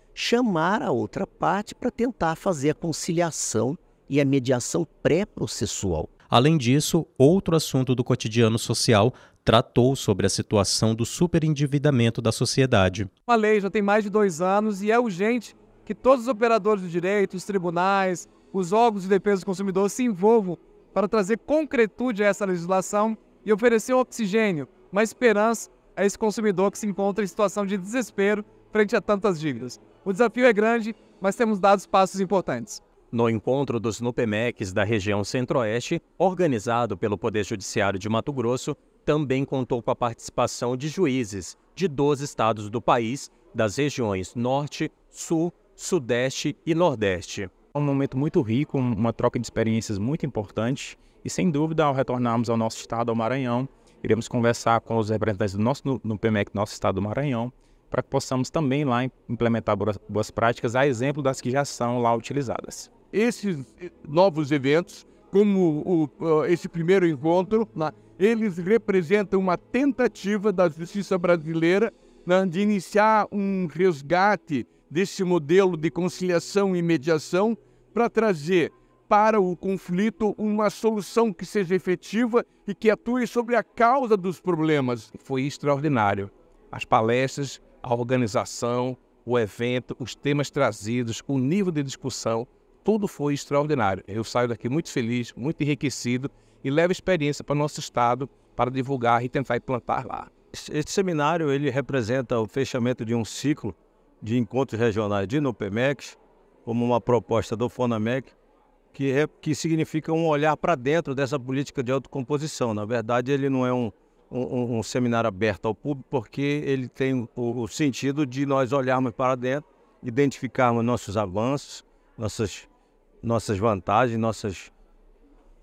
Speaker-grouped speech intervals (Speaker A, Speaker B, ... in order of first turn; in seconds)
Speaker A: 0.1-6.1
Speaker B: 6.3-13.1, 33.1-47.5
Speaker C: 13.3-32.8
Speaker D: 47.8-62.9
Speaker E: 63.1-84.8
Speaker F: 85.1-100.3
Speaker G: 100.5-108.3, 108.9-122.7, 123.2-124.7